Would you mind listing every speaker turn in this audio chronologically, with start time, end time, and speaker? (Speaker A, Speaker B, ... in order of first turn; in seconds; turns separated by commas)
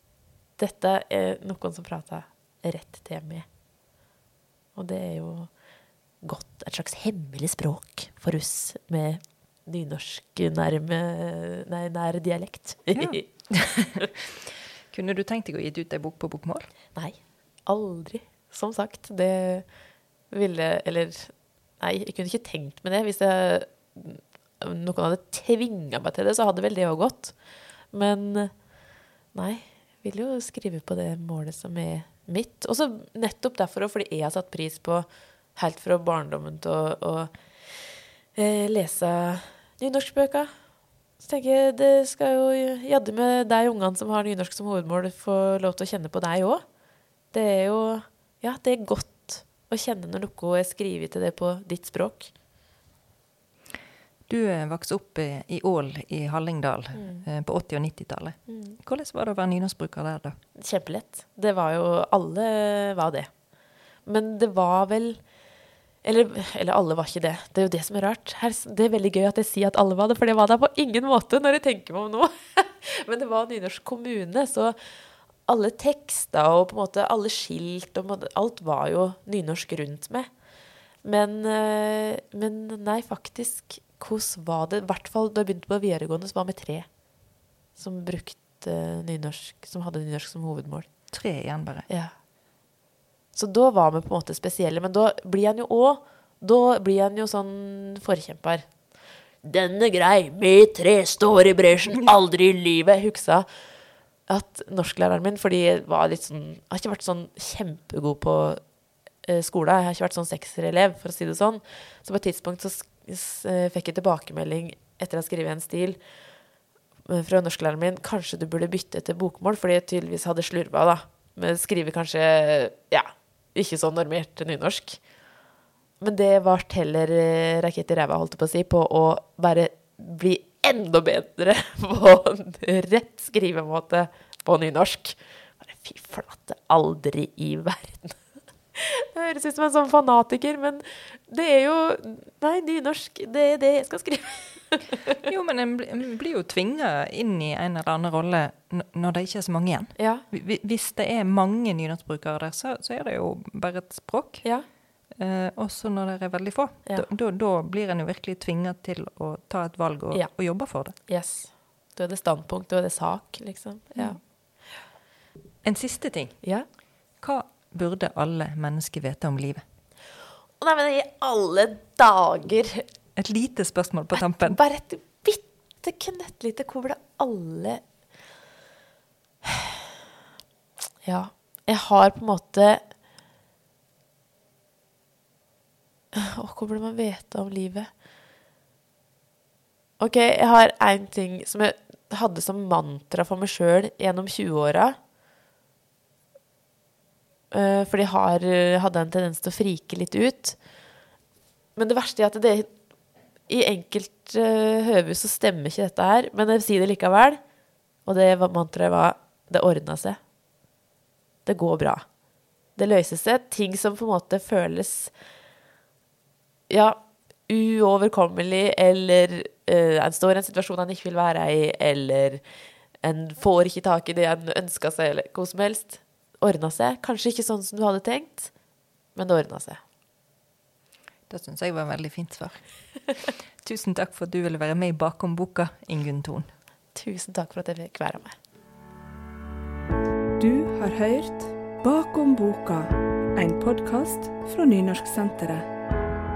Speaker A: 0.6-3.5, Speaker A: 4.8-5.5, Speaker A: 6.2-14.1, Speaker B: 13.0-14.1, Speaker B: 14.9-16.7, Speaker A: 16.9-19.7, Speaker A: 20.3-27.4, Speaker A: 27.9-28.7, Speaker A: 29.3-37.4, Speaker A: 38.3-40.5, Speaker A: 41.2-46.6, Speaker A: 47.3-52.3, Speaker B: 54.3-60.4, Speaker A: 56.9-57.2, Speaker A: 58.5-58.8, Speaker A: 60.5-63.4, Speaker A: 64.0-65.2, Speaker A: 66.0-74.7, Speaker A: 75.4-80.3, Speaker A: 81.0-86.9, Speaker A: 87.7-90.9, Speaker B: 91.1-91.9, Speaker A: 91.9-92.1, Speaker A: 93.3-98.7, Speaker A: 99.4-103.5, Speaker A: 104.3-108.6, Speaker A: 109.2-116.0, Speaker A: 117.1-125.0, Speaker A: 126.0-138.2, Speaker A: 138.7-145.2, Speaker B: 145.2-154.5, Speaker A: 150.0-150.2, Speaker B: 155.1-160.9, Speaker A: 160.9-164.2, Speaker B: 165.6-166.4, Speaker B: 167.2-169.6, Speaker A: 170.6-172.8, Speaker B: 173.2-174.6, Speaker A: 174.4-177.8, Speaker A: 181.0-182.8, Speaker A: 186.1-187.9, Speaker A: 190.0-195.0, Speaker A: 197.5-200.6, Speaker A: 201.8-202.7, Speaker A: 203.5-207.4, Speaker A: 208.0-210.2, Speaker A: 211.4-212.0, Speaker A: 212.8-215.1, Speaker A: 216.7-222.4, Speaker A: 223.0-228.5, Speaker A: 229.1-229.8, Speaker B: 231.3-232.7, Speaker B: 233.6-236.5, Speaker A: 236.9-238.4, Speaker C: 240.4-245.7